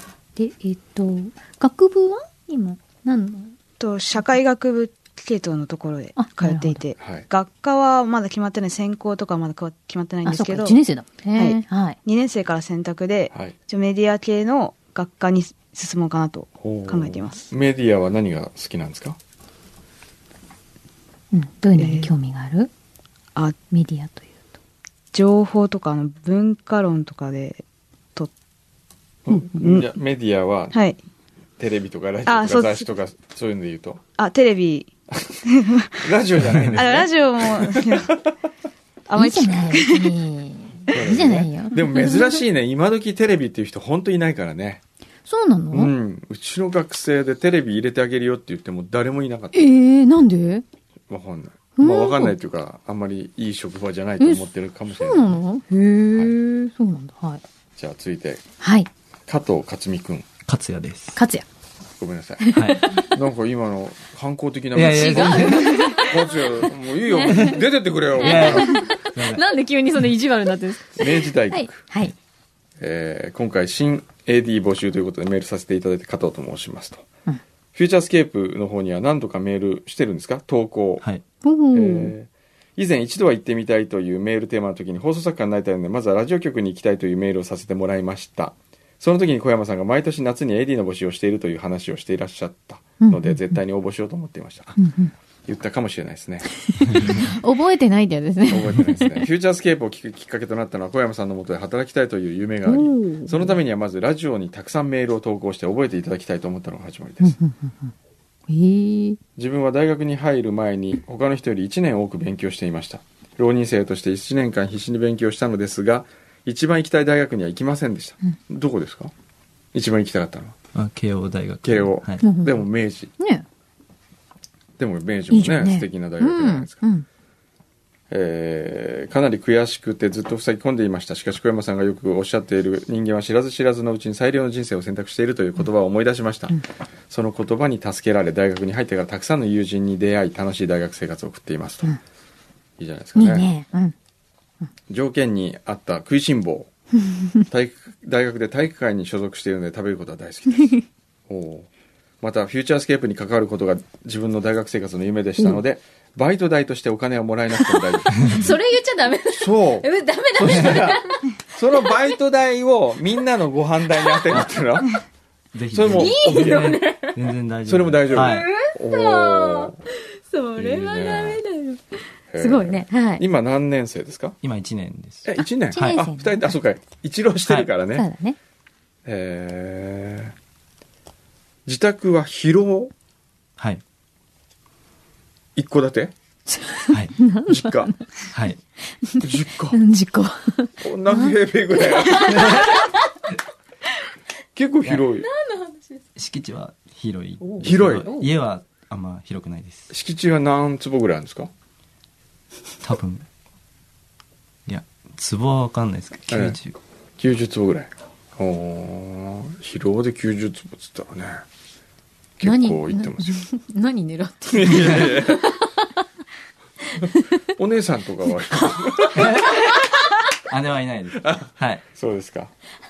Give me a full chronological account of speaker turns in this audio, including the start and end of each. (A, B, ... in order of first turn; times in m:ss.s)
0:00.4-0:03.5 A
0:03.8-0:10.8 B
0:06.2-0:06.8 A
0:07.0-0:07.2 C
0:10.2-0:12.0 A
0:11.3-0:17.5 B
0:16.6-0:19.2 C
0:21.3-0:22.7 A
0:21.8-0:22.1 B
0:23.7-0:24.3 A
0:25.1-0:27.6 B
0:29.3-0:30.8 C
0:29.3-0:29.9 B
0:30.7-0:31.0 B
0:31.6-0:34.0 C
0:32.2-0:32.9 B
0:34.2-0:34.9 B
0:35.1-0:35.4 C
0:35.4-0:36.1 B
0:36.0-0:38.2 C
0:36.7-0:38.2 B
0:39.1-0:40.1 B
0:39.2-0:42.4 A
0:40.9-0:44.8 C
0:45.3-0:45.9 A
0:45.7-0:49.7 C
0:49.5-0:50.6 A
0:51.1-0:55.3 C
0:51.8-0:52.3 A
0:54.2-0:57.4 A
0:57.8-0:58.4 C
0:58.6-0:58.9 A
0:59.3-1:00.3 C
1:00.4-1:01.2 D
1:01.2-1:01.4 A
1:02.0-1:08.8 C
1:02.4-1:03.0 A
1:02.5-1:02.8 D
1:04.7-1:06.0 D
1:04.9-1:06.4 A
1:07.0-1:07.6 A
1:08.2-1:09.4 D
1:08.2-1:12.1 A
1:11.0-1:11.8 C
1:12.8-1:17.0 C
1:17.7-1:21.0 C
1:21.4-1:22.1 A
1:21.7-1:34.8 C
1:33.0-1:33.4 A
1:34.8-1:35.1 A
1:35.5-1:37.2 C
1:36.7-1:39.2 A
1:38.4-1:47.4 C
1:42.6-1:43.6 A
1:47.2-1:47.9 A
1:48.5-1:49.2 A
1:49.4-1:59.1 C
1:59.7-2:00.6 C
2:00.7-2:02.2 D
2:01.6-2:03.1 C
2:02.2-2:02.6 A
2:03.2-2:03.4 A
2:04.8-2:06.8 C
2:05.3-2:07.0 A
2:08.1-2:21.9 C
2:22.8-2:23.5 C
2:23.2-2:23.9 A
2:24.9-2:26.7 C
2:27.1-2:27.4 A
2:27.5-2:31.7 C
2:32.2-2:38.5 C
2:38.2-2:42.0 A
2:39.3-2:45.0 C
2:40.5-2:40.8 D
2:45.5-2:48.5 D
2:45.7-2:46.8 C
2:45.9-2:47.2 A
2:47.6-2:49.8 C
2:48.2-2:49.7 A
2:50.3-2:53.2 A
2:50.6-2:51.4 C
2:52.3-2:54.4 C
2:54.4-2:56.0 D
2:55.2-2:58.1 C
2:55.7-2:56.5 A
2:57.9-2:58.4 A
2:59.0-3:00.3 C
3:01.6-3:02.9 C
3:05.6-3:06.1 C
3:06.5-3:08.0 A
3:07.5-3:07.9 C
3:08.3-3:08.6 D
3:09.0-3:11.3 A
3:09.2-3:09.8 C
3:10.8-3:12.6 C
3:12.0-3:13.1 A
3:12.3-3:12.7 D
3:14.5-3:15.3 C
3:15.4-3:15.9 A
3:16.2-3:19.9 D
3:17.4-3:18.2 A
3:17.6-3:18.2 C
3:19.9-3:21.5 C
3:22.8-3:23.2 D
3:24.7-3:26.8 D
3:26.3-3:26.6 C
3:27.2-3:31.4 C
3:32.4-3:33.4 C
3:32.4-3:35.7 A
3:34.5-3:35.5 C
3:36.9-3:37.2 A
3:37.4-3:39.6 C
3:39.1-3:39.8 D
3:40.4-3:41.8 D
3:41.2-3:42.5 C